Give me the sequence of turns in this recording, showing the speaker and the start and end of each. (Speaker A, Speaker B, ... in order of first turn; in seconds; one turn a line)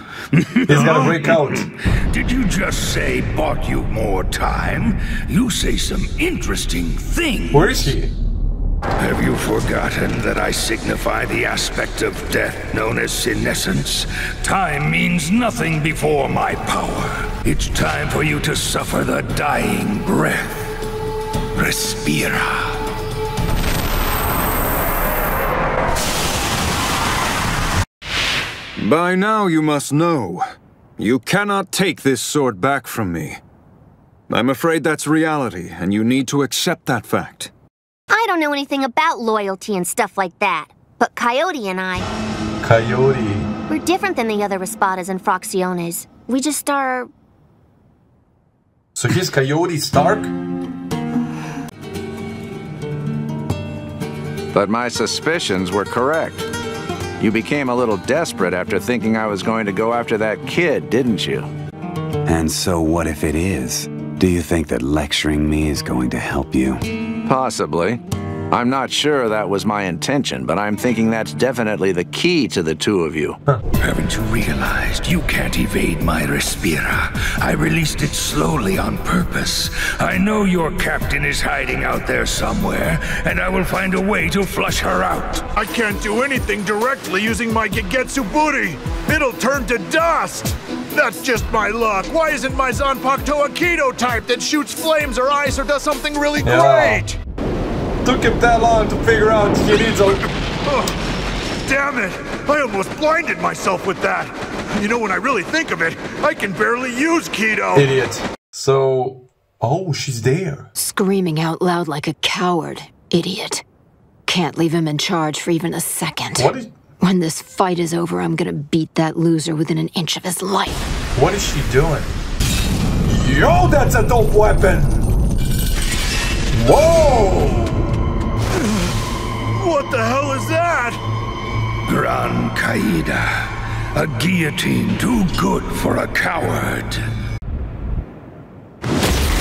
Speaker A: 0.3-8.0
Speaker B: 0.7-1.6
Speaker B: 7.5-8.1
Speaker A: 9.0-20.6
Speaker A: 21.5-22.8
Speaker C: 28.8-30.4
Speaker C: 31.0-33.4
Speaker C: 34.3-37.5
Speaker D: 38.1-42.1
Speaker B: 42.6-43.5
Speaker D: 43.7-47.1
Speaker B: 49.0-50.3
Speaker E: 54.5-56.5
Speaker E: 57.2-61.5
Speaker F: 62.2-66.8
Speaker E: 67.2-73.4
Speaker A: 73.8-85.5
Speaker G: 85.5-97.2
Speaker B: 96.4-97.0
Speaker B: 98.0-100.2
Speaker G: 100.6-101.0
Speaker G: 101.7-107.9
Speaker B: 107.7-110.7
Speaker H: 110.8-113.6
Speaker H: 114.3-120.9
Speaker B: 116.3-116.7
Speaker B: 121.1-122.2
Speaker B: 123.0-125.1
Speaker B: 126.5-127.9
Speaker G: 128.6-128.9
Speaker G: 129.6-131.0
Speaker A: 131.9-137.0